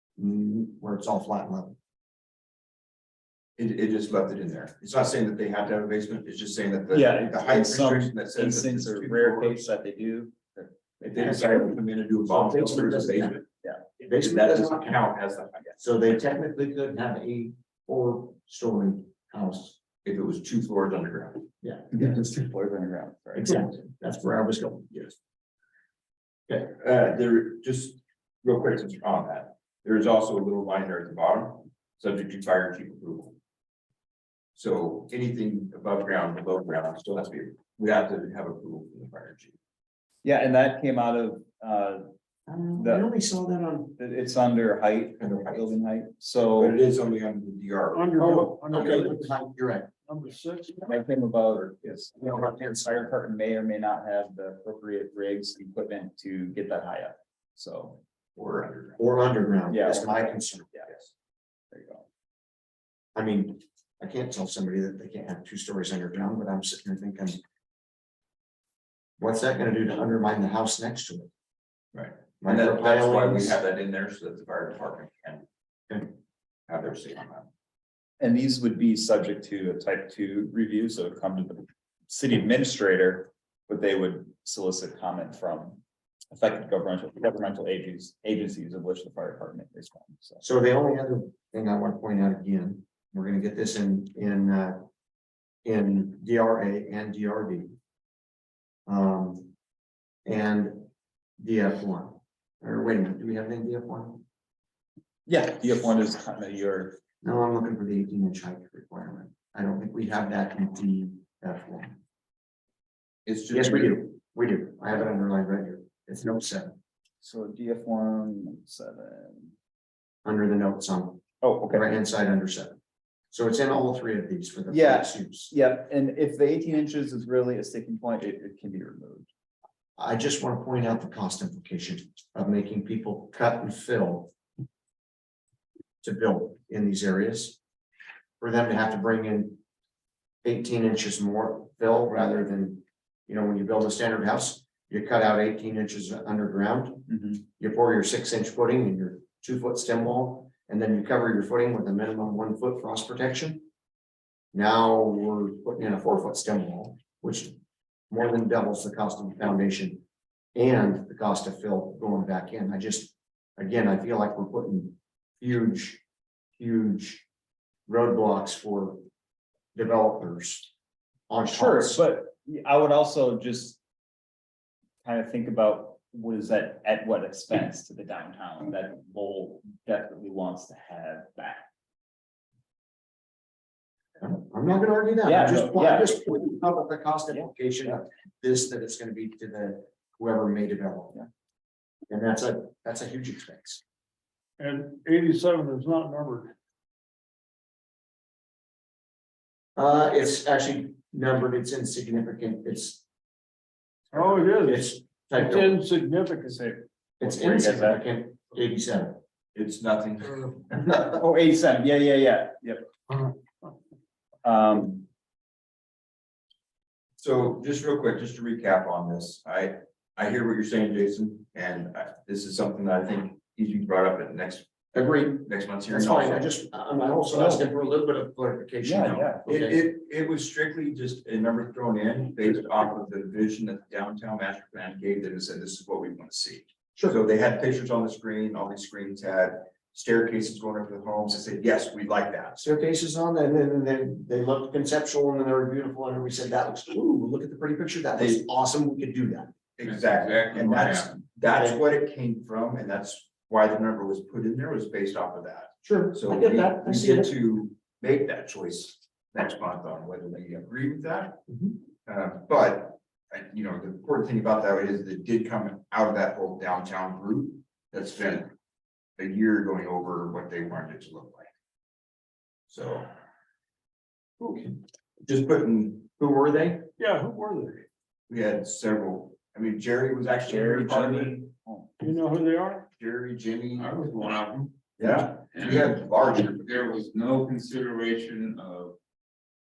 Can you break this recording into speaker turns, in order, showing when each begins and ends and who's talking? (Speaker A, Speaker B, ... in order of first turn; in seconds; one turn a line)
Speaker A: 0.2-1.8
Speaker B: 3.6-9.7
Speaker C: 6.9-10.8
Speaker B: 11.1-13.5
Speaker A: 11.1-13.4
Speaker A: 14.0-15.0
Speaker B: 14.1-15.8
Speaker A: 15.8-19.8
Speaker B: 20.0-21.5
Speaker A: 21.6-22.2
Speaker C: 21.9-23.6
Speaker A: 23.4-25.0
Speaker B: 26.5-33.4
Speaker B: 34.5-39.6
Speaker C: 40.2-42.1
Speaker A: 42.5-44.0
Speaker C: 42.8-43.1
Speaker C: 44.0-46.8
Speaker B: 45.2-45.6
Speaker B: 46.5-49.1
Speaker D: 47.9-49.3
Speaker A: 48.2-49.9
Speaker D: 50.1-51.0
Speaker C: 50.9-58.0
Speaker A: 52.2-53.0
Speaker B: 58.4-59.0
Speaker A: 59.0-60.8
Speaker C: 59.7-60.9
Speaker C: 61.7-62.1
Speaker A: 63.1-67.4
Speaker A: 69.2-71.3
Speaker B: 71.9-75.5
Speaker A: 72.4-73.6
Speaker B: 76.7-77.5
Speaker C: 78.2-85.8
Speaker C: 86.3-90.4
Speaker A: 90.4-94.8
Speaker A: 95.7-97.7
Speaker A: 98.9-99.5
Speaker A: 100.2-100.9
Speaker A: 101.4-104.2
Speaker C: 105.3-107.0
Speaker A: 107.2-112.0
Speaker B: 113.3-114.0
Speaker A: 113.5-116.8
Speaker C: 117.2-119.5
Speaker A: 120.2-122.8
Speaker C: 121.4-121.9
Speaker A: 123.3-125.5
Speaker C: 124.7-129.3
Speaker A: 130.0-134.3
Speaker A: 136.0-137.6
Speaker A: 138.4-139.6
Speaker A: 140.4-153.7
Speaker C: 147.1-147.4
Speaker A: 154.5-157.6
Speaker A: 158.1-160.0
Speaker A: 160.6-166.0
Speaker A: 166.6-167.2
Speaker A: 167.9-169.0
Speaker A: 169.8-170.7
Speaker A: 171.3-172.0
Speaker C: 171.4-173.8
Speaker C: 175.0-181.7
Speaker A: 184.2-191.2
Speaker C: 185.2-186.4
Speaker A: 192.1-193.8
Speaker D: 194.6-196.5
Speaker A: 199.8-203.0
Speaker D: 204.1-206.6
Speaker A: 204.1-205.8
Speaker C: 206.6-208.0
Speaker A: 207.2-209.2
Speaker B: 209.6-211.1
Speaker C: 211.1-212.9
Speaker C: 214.4-215.1
Speaker B: 217.2-224.7
Speaker A: 224.9-229.8
Speaker B: 225.4-226.5
Speaker C: 227.3-227.6
Speaker C: 228.8-229.5
Speaker B: 229.5-242.6
Speaker A: 242.6-249.5
Speaker B: 249.8-261.4
Speaker E: 249.8-251.1
Speaker A: 251.5-251.8
Speaker A: 255.8-257.4
Speaker A: 261.5-261.8
Speaker B: 262.1-268.5
Speaker B: 269.2-271.5
Speaker B: 272.7-273.1
Speaker B: 275.2-276.9
Speaker D: 277.0-277.9
Speaker B: 278.3-281.4
Speaker C: 280.5-281.9
Speaker D: 282.0-282.9
Speaker B: 283.0-284.0
Speaker E: 283.7-284.7
Speaker B: 285.0-286.7
Speaker E: 285.5-289.0